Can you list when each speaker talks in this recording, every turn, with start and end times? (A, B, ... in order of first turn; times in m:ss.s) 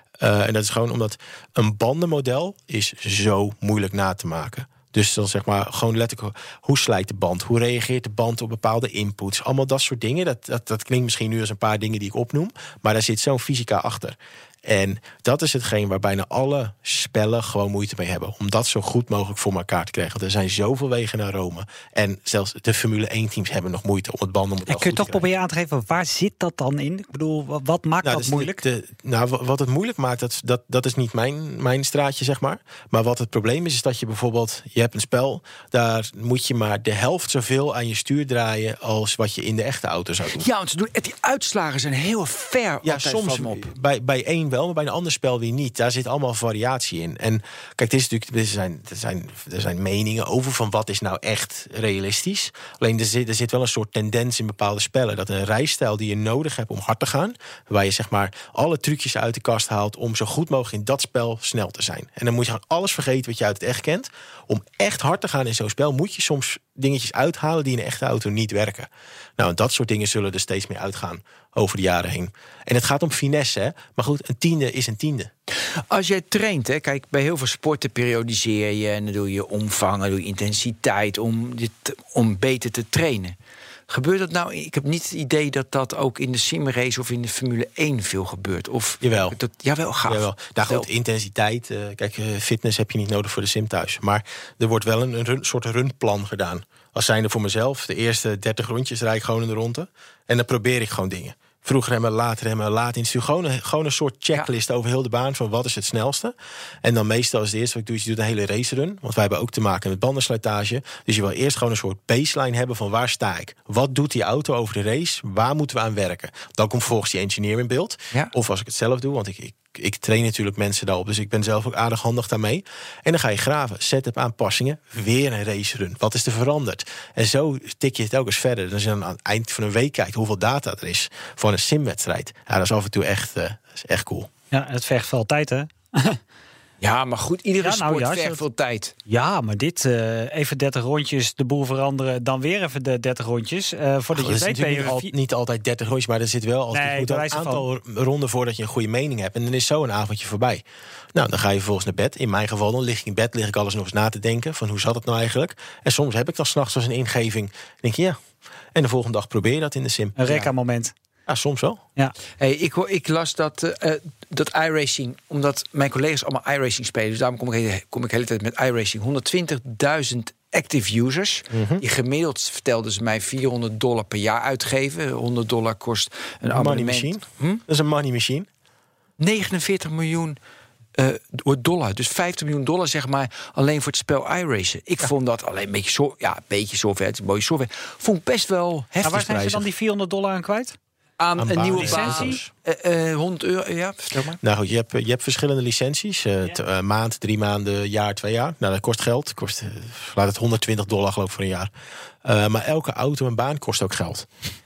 0:00.2-0:25.2 A
0:24.7-0:28.6 B
0:28.0-0:40.5 A
0:40.4-0:43.7 C
0:42.8-1:15.3 A
1:15.9-1:23.4 C
1:23.9-1:30.9 C
1:29.0-1:29.4 A
1:30.1-2:14.3 A
2:14.5-2:16.2 B
2:16.8-2:18.9 C
2:17.6-2:18.4 B
2:19.1-2:25.1 B
2:24.1-2:38.2 A
2:26.7-2:27.7 B
2:38.8-2:40.2 A
2:40.2-2:40.9 B
2:41.3-2:41.8 A
2:42.4-2:57.6 C
2:51.5-2:51.8 A
2:56.5-2:58.5 A
2:59.2-3:00.4 C
3:01.0-3:09.2 C
3:09.0-3:10.8 B
3:09.1-3:09.7 A
3:11.2-3:14.4 C
3:11.4-3:12.5 A
3:11.8-3:12.4 B
3:14.4-3:21.7 A
3:22.2-3:24.3 A